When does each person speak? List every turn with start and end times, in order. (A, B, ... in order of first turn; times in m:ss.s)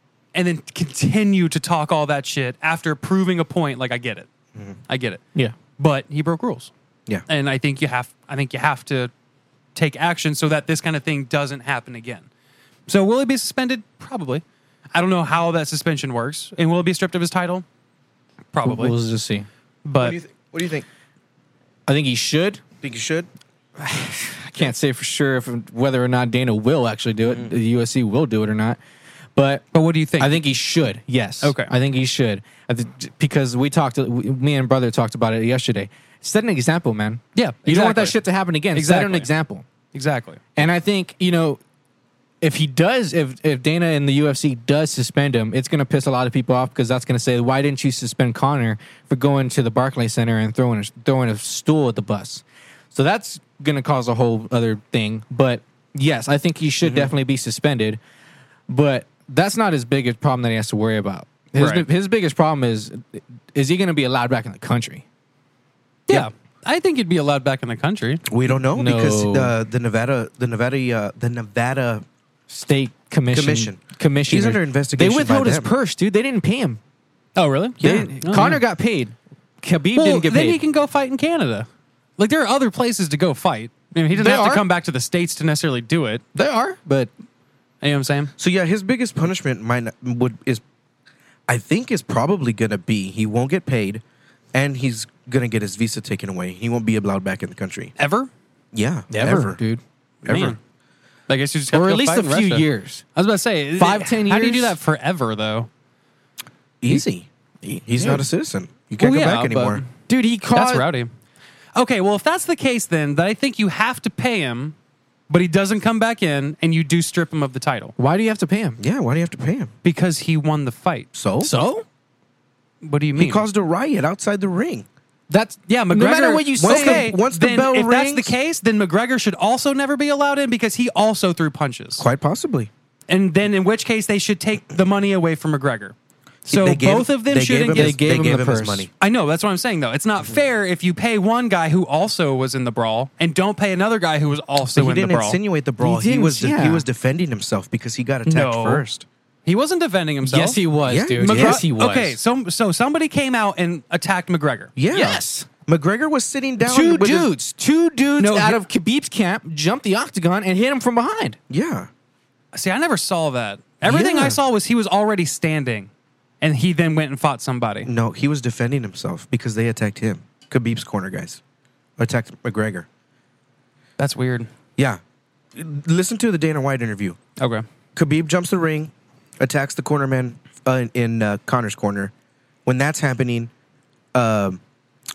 0:00.3-0:04.3 A
0:04.9-0:05.2 A
0:05.8-0:06.7 A
0:07.3-0:09.1 A
0:09.7-0:12.3 A
0:12.9-0:14.4 A
0:14.9-0:17.6 A
0:18.5-0:18.9 A
0:18.6-0:19.5 B
0:19.8-0:20.2 A
0:20.0-0:20.8 C
0:21.9-0:22.6 B
0:22.8-0:23.3 C
0:23.8-0:28.8 B
0:29.4-0:29.6 B
0:29.7-0:30.4 A
0:30.2-0:39.6 B
0:31.4-0:31.7 A
0:37.4-0:38.2 A
0:38.7-0:39.3 A
0:39.9-0:40.4 A
0:40.6-0:41.6 B
0:42.4-0:58.0 B
0:56.8-0:57.1 A
0:58.7-1:05.0 B
1:01.6-1:01.9 A
1:06.1-1:08.2 A
1:08.3-1:12.0 C
1:08.7-1:09.5 B
1:12.5-1:16.8 B
1:13.3-1:15.7 C
1:17.4-1:18.6 A
1:17.8-1:20.6 B
1:17.8-1:18.1 C
1:19.9-1:21.7 A
1:22.2-1:26.2 A
1:24.1-1:24.6 B
1:26.3-1:27.1 B
1:27.8-1:28.3 A
1:28.4-1:30.6 C
1:31.5-1:34.0 C
1:34.5-1:37.9 C
1:38.0-1:38.3 A
1:38.7-1:39.6 C
1:39.1-1:39.8 B
1:40.2-1:40.6 C
1:40.2-1:40.6 A
1:41.3-1:45.7 A
1:41.7-1:43.0 B
1:43.8-1:44.8 B
1:46.8-1:49.8 C
1:47.6-1:48.2 B
1:49.0-1:49.9 A
1:50.1-1:50.8 B
1:50.5-1:51.1 A
1:51.8-1:54.7 A
1:55.3-1:57.9 A
1:58.0-1:58.8 B
1:58.8-1:59.7 C
1:59.8-2:01.1 A
2:01.1-2:01.5 C
2:01.4-2:01.8 B
2:02.8-2:03.4 A
2:03.2-2:04.8 C
2:05.3-2:07.1 B
2:05.7-2:12.0 A
2:06.6-2:08.3 C
2:12.0-2:12.7 C
2:13.1-2:15.9 A
2:16.4-2:18.0 A
2:16.5-2:18.9 C
2:17.7-2:18.9 B
2:19.0-2:25.4 A
2:24.7-2:29.0 C
2:25.8-2:26.8 B
2:28.2-2:28.8 A
2:29.4-2:30.6 A
2:30.3-2:32.2 B
2:30.8-2:31.6 C
2:31.2-2:34.7 A
2:34.8-2:37.3 C
2:34.9-2:35.5 B
2:36.6-2:41.4 B
2:38.2-2:38.6 A
2:41.5-2:41.9 C
2:42.5-2:45.9 A
2:43.8-2:44.4 C
2:46.4-2:47.9 A
2:47.8-2:51.4 C
2:52.0-2:52.9 C
2:54.0-2:54.5 A
2:55.5-2:57.2 C
2:57.4-2:57.6 A
2:58.0-3:02.1 C
3:02.6-3:03.5 C
3:04.1-3:04.6 C